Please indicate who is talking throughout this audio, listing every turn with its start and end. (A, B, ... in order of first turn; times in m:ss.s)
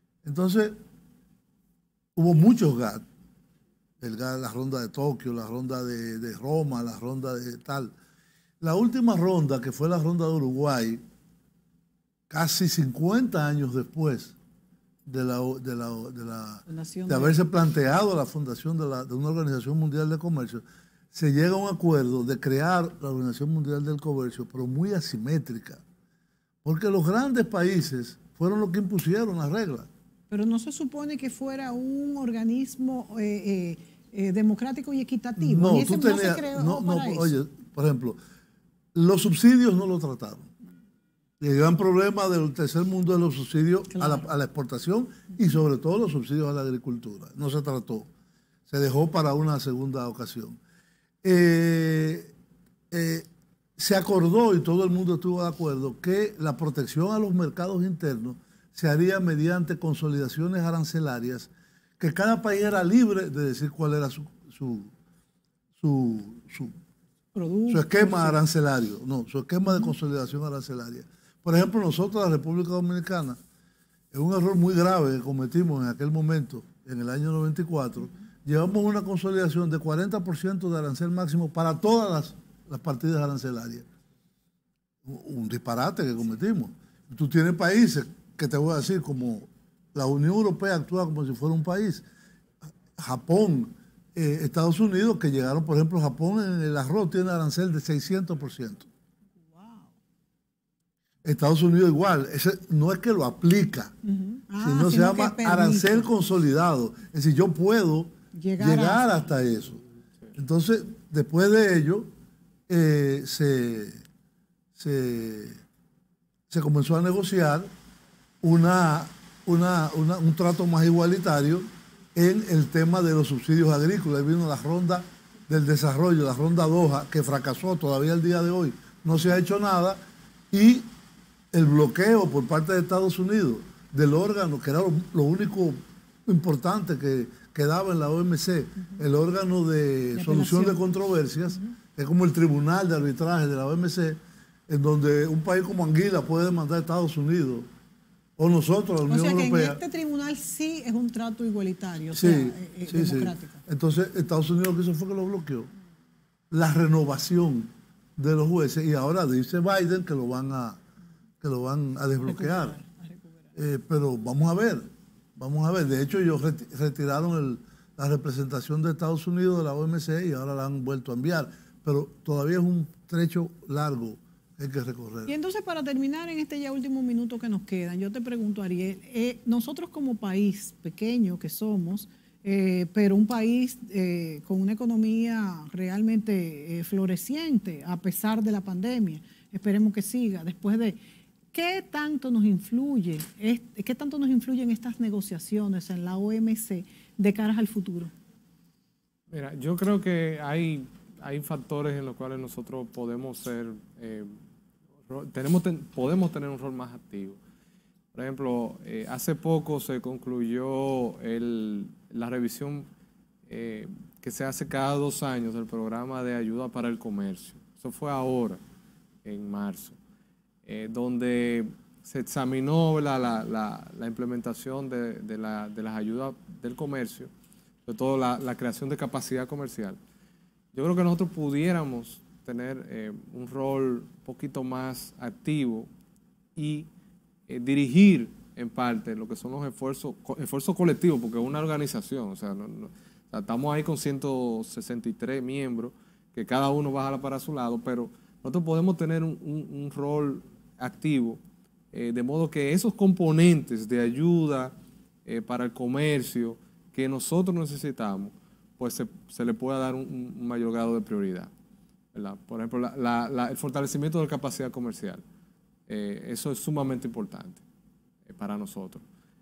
0:00.2-0:00.8 A
0:02.2-0:03.0 A
0:04.0-0:07.9 A
0:08.6-0:11.0 A
0:12.3-0:14.3 A
0:15.0-0:25.8 A
0:16.7-0:17.4 B
0:26.6-0:29.9 A
0:30.3-0:37.3 B
0:35.4-0:38.2 A
0:38.9-0:40.5 A
0:41.4-0:48.1 A
0:43.9-0:44.3 B
0:48.7-0:50.6 A
0:51.2-0:52.3 A
0:52.9-0:53.2 A
0:53.8-1:04.9 A
1:05.8-1:06.7 A
1:07.3-1:08.4 B
1:07.7-1:13.4 A
1:14.1-1:23.8 A
1:25.0-1:32.0 A
1:33.0-1:38.9 A
1:39.5-1:39.9 B
1:41.2-1:43.9 A
1:44.0-1:46.1 B
1:44.6-1:49.8 A
1:48.3-1:49.0 B
1:50.3-1:52.1 A
1:52.7-1:54.0 A
1:54.7-1:55.6 A
1:56.5-1:57.7 A
1:58.4-2:10.0 A
2:10.5-2:10.8 A
2:11.5-2:27.6 A
2:20.1-2:20.8 B
2:28.4-2:29.8 A
2:29.1-2:33.6 B
2:32.1-2:35.7 A
2:36.5-2:40.8 A
2:41.4-2:42.8 A
2:42.2-2:43.3 B
2:43.6-2:55.3 A
2:55.3-3:11.0 B
3:11.5-3:18.1 B
3:19.3-3:24.3 C
3:25.1-3:27.4 C
3:28.1-3:32.9 C
3:33.5-3:38.6 C
3:39.2-3:40.0 C
3:40.6-3:47.3 C
3:47.8-3:50.0 C
3:50.7-3:55.9 C
3:56.6-3:56.9 C
3:57.5-4:11.4 C
4:11.9-4:14.7 C
4:15.2-4:21.5 C
4:22.1-4:25.2 C
4:25.9-4:27.6 C
4:28.2-4:29.0 C